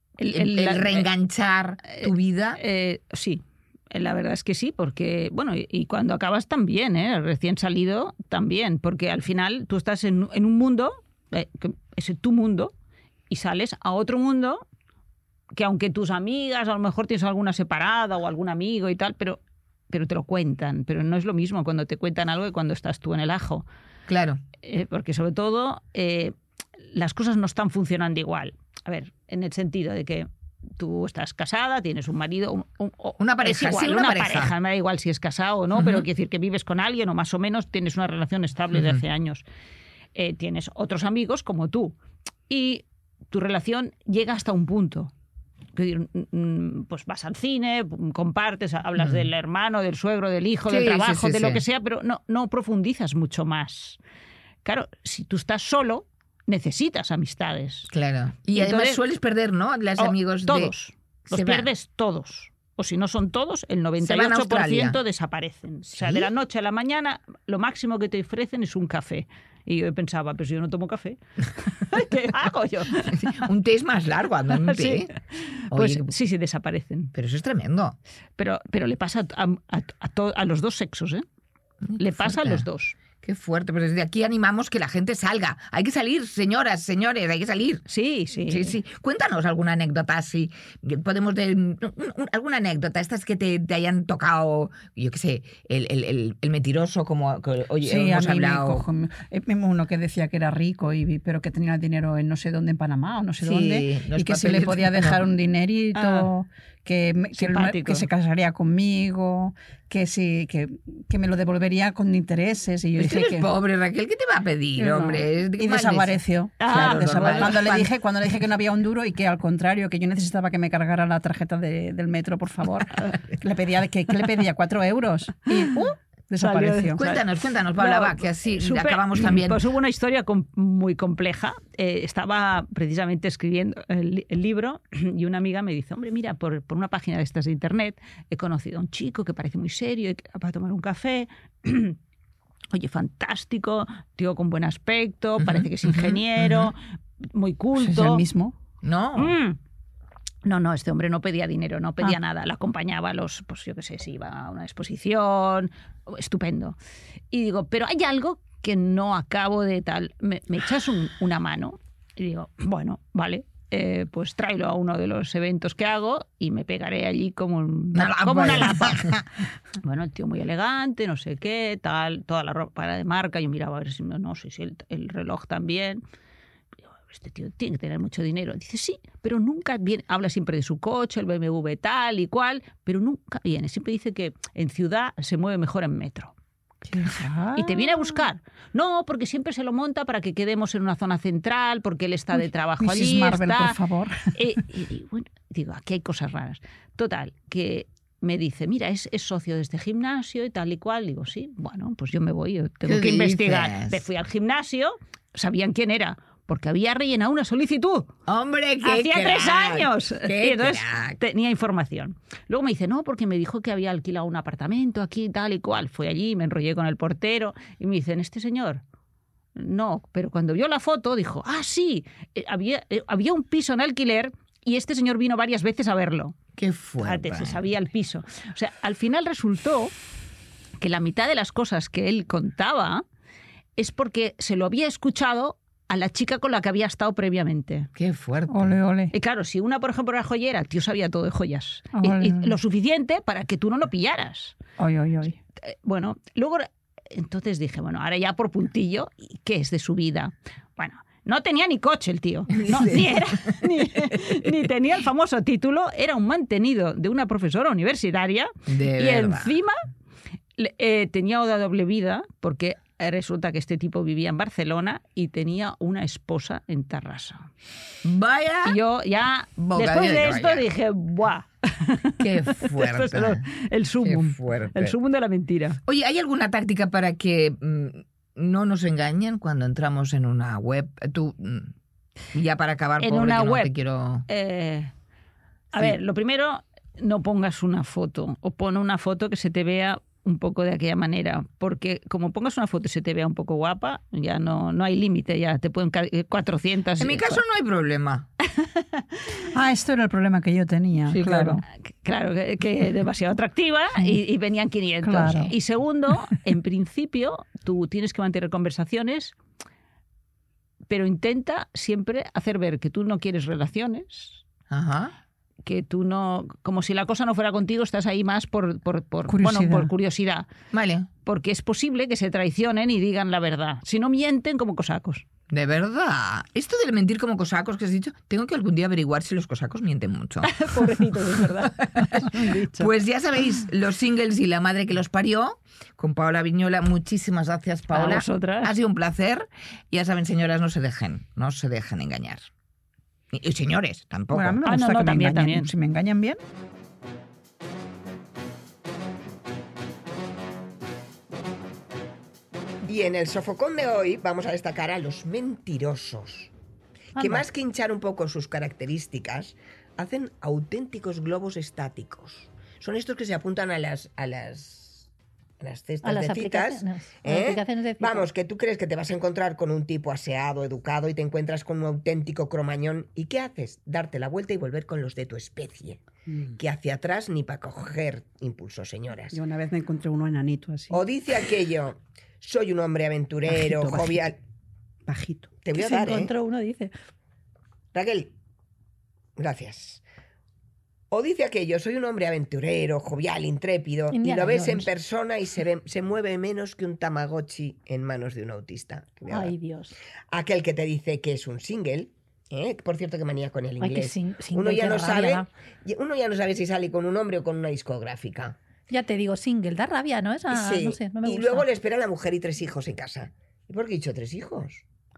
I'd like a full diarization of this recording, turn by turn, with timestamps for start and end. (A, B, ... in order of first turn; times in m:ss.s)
0:00.2-0:01.1 A
0:00.3-0:02.6 B
0:01.8-0:12.7 A
0:13.3-0:14.6 A
0:15.5-0:23.6 A
0:24.1-0:24.4 B
0:24.6-0:26.3 A
0:26.9-0:39.4 A
0:33.2-0:34.5 B
0:35.7-0:36.0 B
0:38.7-0:39.0 B
0:40.1-0:42.0 A
0:42.5-0:45.1 A
0:45.7-0:54.0 A
0:49.0-0:49.2 B
0:50.7-0:51.6 B
0:54.6-0:57.9 A
0:57.9-1:00.7 B
0:58.5-0:59.0 A
1:00.0-1:13.4 A
1:01.3-1:01.7 B
1:04.0-1:05.0 B
1:05.9-1:06.3 B
1:13.1-1:15.1 B
1:14.5-1:17.1 A
1:15.7-1:16.1 B
1:17.1-1:18.0 B
1:18.4-1:21.2 A
1:21.8-1:27.9 B
1:22.0-1:23.0 A
1:27.9-1:28.8 A
1:28.4-1:38.8 B
1:37.8-1:53.5 C
1:43.4-1:45.2 B
1:45.9-1:46.3 A
1:47.4-1:48.0 A
1:53.0-1:57.9 B
1:54.8-2:07.0 C
1:56.6-1:57.5 A
2:06.4-2:22.0 A
2:07.0-2:09.6 B
2:22.7-2:26.8 A
2:25.4-2:26.7 B
2:27.3-2:28.2 A
2:27.8-2:28.5 C
2:28.8-2:29.4 B
2:29.2-2:29.6 A
2:30.4-2:36.8 A
2:37.3-2:49.1 A
2:47.9-2:49.2 B
2:49.8-2:56.0 A
2:57.1-3:06.3 A
3:06.8-3:08.2 C
3:07.6-3:13.8 A
3:12.4-3:14.6 C
3:14.4-3:28.1 A
3:22.8-3:24.0 B
3:28.3-3:31.2 B
3:28.8-3:38.8 A
3:39.6-3:46.4 A
3:46.6-3:47.6 B
3:47.0-3:49.9 A
3:50.8-3:53.0 A
3:53.8-3:57.9 A
3:57.9-3:58.8 B
3:58.5-3:59.1 C
3:59.1-4:04.6 A
4:01.9-4:02.6 C
4:04.8-4:05.4 C
4:05.7-4:19.8 A
4:12.5-4:13.6 B
4:18.7-4:19.5 B
4:20.6-4:27.5 A
4:28.0-4:28.8 B
4:28.6-4:35.8 A
4:29.6-4:30.7 B
4:32.2-4:33.4 B
4:34.0-4:35.0 B
4:35.8-4:41.7 B
4:42.3-4:44.2 B
4:43.0-4:43.7 A
4:44.3-4:44.9 A
4:45.7-4:57.4 A
4:57.0-4:58.3 B
4:58.5-4:59.2 A
4:59.5-5:01.6 C
5:01.1-5:01.6 B
5:01.9-5:09.4 A
5:05.0-5:05.5 C
5:10.9-5:14.4 A
5:14.7-5:15.1 B
5:15.6-5:20.5 A
5:19.3-5:19.9 C
5:20.7-5:21.1 B
5:21.2-5:25.2 A
5:25.5-5:42.5 B
5:30.4-5:32.9 A
5:37.9-5:38.7 A
5:43.3-5:44.6 B
5:44.3-5:46.4 C
5:44.6-5:45.7 A
5:52.8-5:56.5 D
5:57.1-5:57.4 E
5:57.2-6:05.1 D
6:05.6-6:19.4 D
6:06.0-6:08.3 E
6:19.3-6:21.0 F
6:20.9-6:24.4 D
6:23.5-6:24.2 F
6:25.0-6:25.5 F
6:25.6-6:26.3 D
6:25.7-6:26.9 E
6:27.9-6:28.3 D
6:29.4-6:30.0 D
6:31.1-6:39.5 D
6:34.1-6:34.9 E
6:39.3-6:40.0 E
6:40.3-6:48.6 D
6:43.8-6:45.5 E
6:48.9-6:51.6 E
6:50.5-6:54.8 D